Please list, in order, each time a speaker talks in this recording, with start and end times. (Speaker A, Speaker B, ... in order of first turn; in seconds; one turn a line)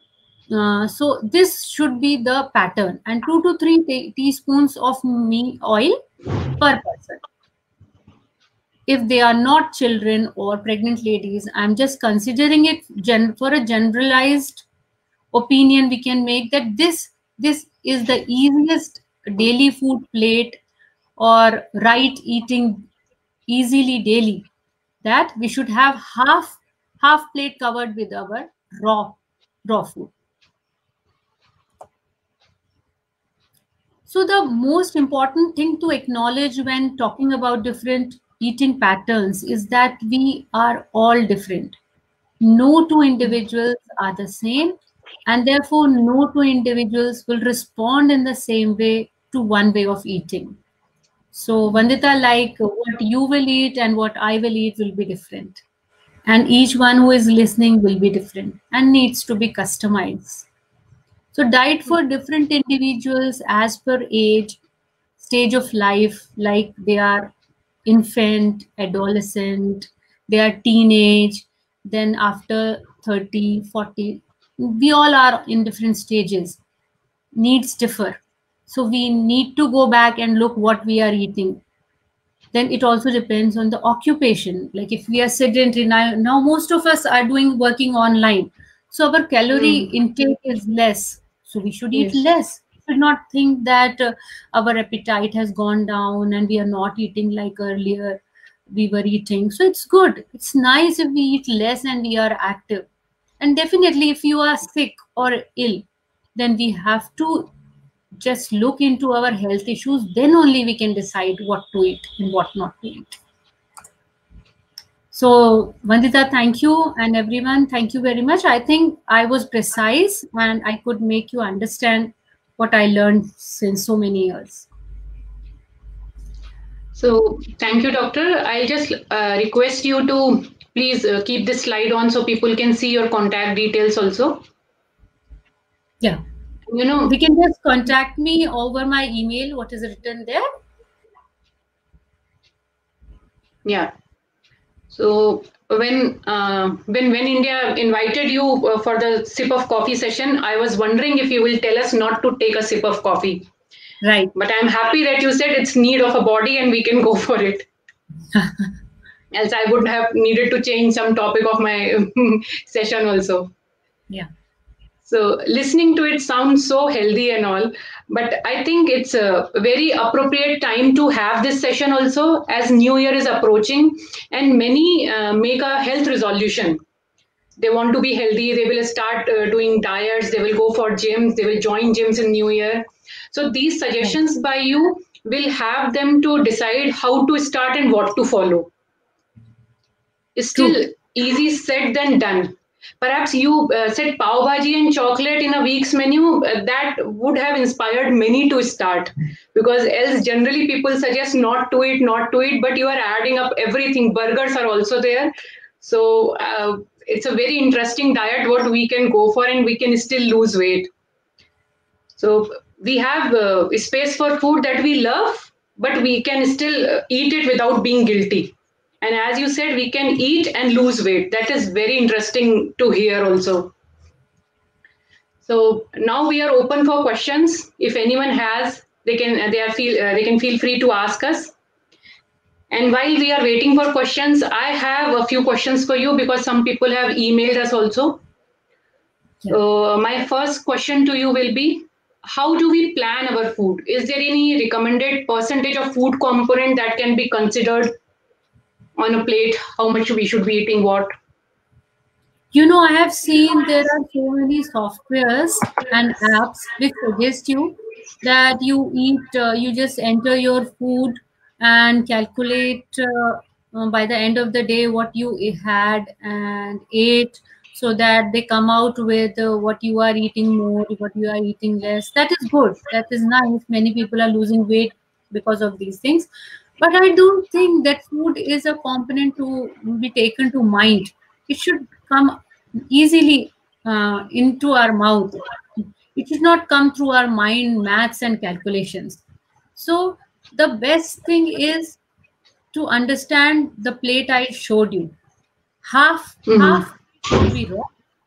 Speaker A: 0.5-6.0
Speaker A: 6.6-7.2
Speaker A: 8.9-14.7
Speaker A: 15.3-20.6
Speaker A: 21.2-22.9
Speaker A: 23.5-24.5
Speaker A: 25.0-30.1
Speaker A: 34.1-41.8
Speaker A: 42.4-44.8
Speaker A: 45.3-50.6
Speaker A: 51.3-55.6
Speaker A: 56.3-60.5
Speaker A: 61.3-64.6
Speaker A: 65.2-67.3
Speaker A: 67.9-76.6
Speaker A: 77.3-81.6
Speaker A: 82.5-102.8
Speaker B: 89.5-89.9
Speaker A: 103.4-107.5
Speaker A: 108.2-113.2
Speaker A: 115.1-124.7
Speaker B: 127.0-134.4
Speaker B: 136.7-137.1
Speaker A: 137.1-140.5
Speaker B: 143.7-143.9
Speaker B: 144.9-153.5
Speaker A: 154.0-154.3
Speaker B: 154.3-157.7
Speaker A: 158.4-158.6
Speaker B: 159.3-163.5
Speaker B: 165.0-176.8
Speaker B: 177.6-188.7
Speaker B: 190.4-210.9
Speaker B: 212.2-223.7
Speaker B: 225.4-231.5
Speaker B: 232.7-238.2
Speaker B: 239.5-247.9
Speaker B: 249.0-251.1
Speaker A: 252.5-276.3
Speaker A: 276.8-282.4
Speaker A: 282.9-289.2
Speaker A: 289.8-292.0
Speaker A: 292.7-295.1
Speaker A: 295.8-297.9
Speaker B: 296.5-296.9